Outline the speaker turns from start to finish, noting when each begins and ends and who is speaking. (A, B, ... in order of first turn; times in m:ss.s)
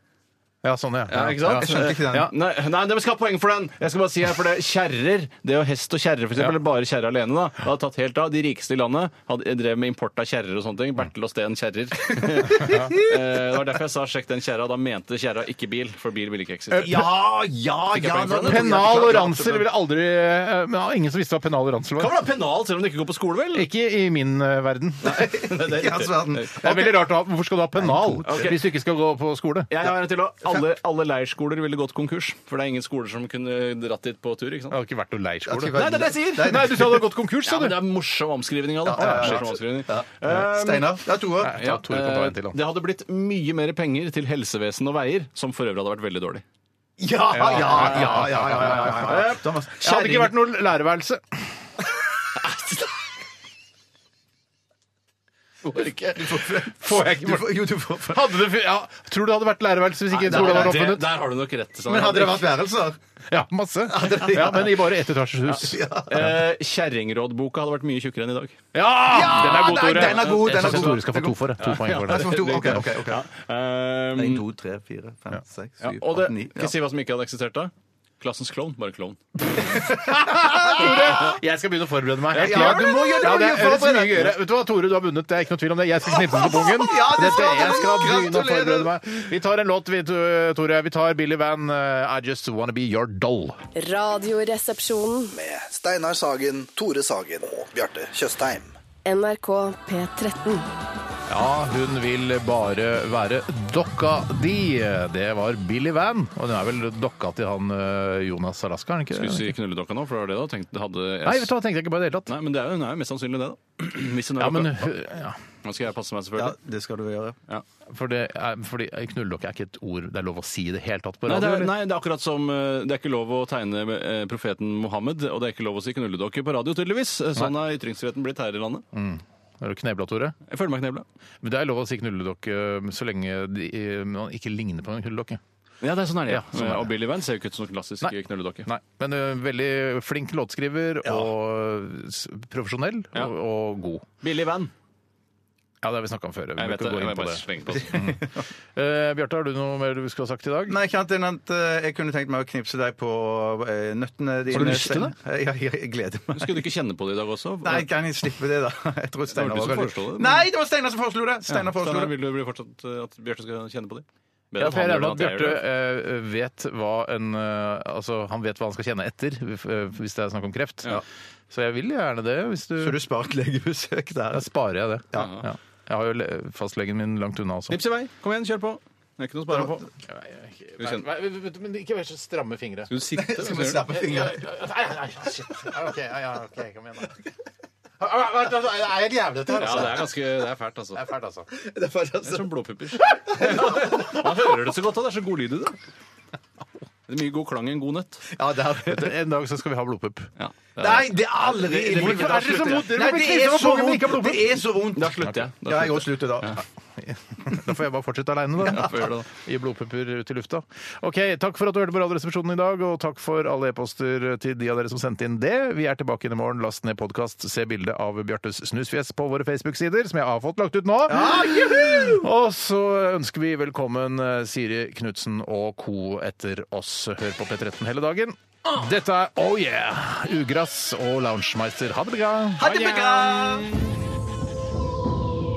0:00.6-0:02.3 A
0:01.1-0:17.1 B
0:01.6-0:02.3 C
0:12.2-0:13.2 C
0:12.6-0:12.9 A
0:16.8-0:19.6 C
0:17.9-0:19.3 B
0:18.4-0:22.3 A
0:22.0-0:23.7 B
0:23.5-0:25.3 A
0:25.1-0:26.7 B
0:25.1-0:27.0 C
0:26.6-0:29.7 A
0:27.8-0:28.6 C
0:28.2-0:28.6 B
0:29.7-0:34.8 B
0:34.7-0:37.8 A
0:35.5-0:37.2 C
0:35.7-0:36.8 B
0:37.4-0:46.4 B
0:38.8-0:41.6 C
0:39.0-0:39.5 A
0:41.4-0:42.6 A
0:47.0-0:50.3 C
0:47.3-0:51.6 A
0:47.5-0:50.3 B
0:52.4-0:52.9 B
0:56.1-0:58.4 C
0:56.4-1:01.1 A
1:00.1-1:02.5 B
1:00.3-1:00.9 C
1:01.9-1:03.0 C
1:03.3-1:05.8 A
1:03.9-1:04.9 C
1:05.5-1:08.6 B
1:05.5-1:06.3 C
1:08.7-1:12.9 A
1:09.1-1:13.3 C
1:09.4-1:11.0 B
1:11.6-1:14.4 B
1:14.2-1:16.7 C
1:15.8-1:19.2 B
1:19.7-1:21.4 C
1:20.0-1:33.6 A
1:20.8-1:21.3 B
1:22.3-1:24.3 C
1:22.4-1:22.8 B
1:26.1-1:29.0 C
1:33.8-1:35.4 D
1:35.3-1:38.7 E
1:39.0-1:40.6 D
1:41.3-1:49.6 A
1:49.1-1:51.5 B
1:51.2-1:52.3 A
1:52.3-1:54.9 B
1:54.4-1:55.4 A
1:55.6-1:56.6 B
1:56.4-1:57.4 C
1:57.9-2:01.7 A
2:01.3-2:08.9 B
2:08.9-2:10.4 A
2:10.5-2:11.0 B
2:11.4-2:15.4 A
2:15.8-2:18.7 B
2:16.3-2:16.9 A
2:18.6-2:24.1 A
2:21.0-2:21.3 C
2:24.2-2:24.7 B
2:25.8-2:30.8 A
2:26.6-2:28.1 B
2:28.0-2:28.5 C
2:30.7-2:36.6 C
2:34.5-2:35.1 B
2:34.5-2:35.1 A
2:36.3-2:37.9 B
2:37.6-2:42.1 C
2:39.3-2:40.5 B
2:41.5-2:45.6 B
2:44.6-2:53.0 A
2:52.8-2:54.5 C
2:54.3-2:57.8 A
2:55.2-2:55.5 B
2:57.7-2:59.9 B
3:00.1-3:02.9 A
3:00.8-3:01.1 B
3:02.9-3:04.0 B
3:03.1-3:04.4 C
3:03.9-3:07.2 A
3:08.0-3:10.1 A
3:09.5-3:11.1 B
3:09.5-3:10.0 C
3:11.0-3:11.5 A
3:11.5-3:12.5 C
3:12.2-3:15.8 B
3:13.1-3:14.3 C
3:17.1-3:18.3 B
3:18.3-3:19.1 C
3:18.9-3:20.3 A
3:20.4-3:22.8 B
3:20.8-3:26.6 C
3:21.4-3:24.6 A
3:25.0-3:26.6 B
3:27.0-3:53.0 A
3:28.7-3:29.3 B
3:41.1-3:42.3 C
3:52.6-3:53.8 C
3:52.6-3:53.7 B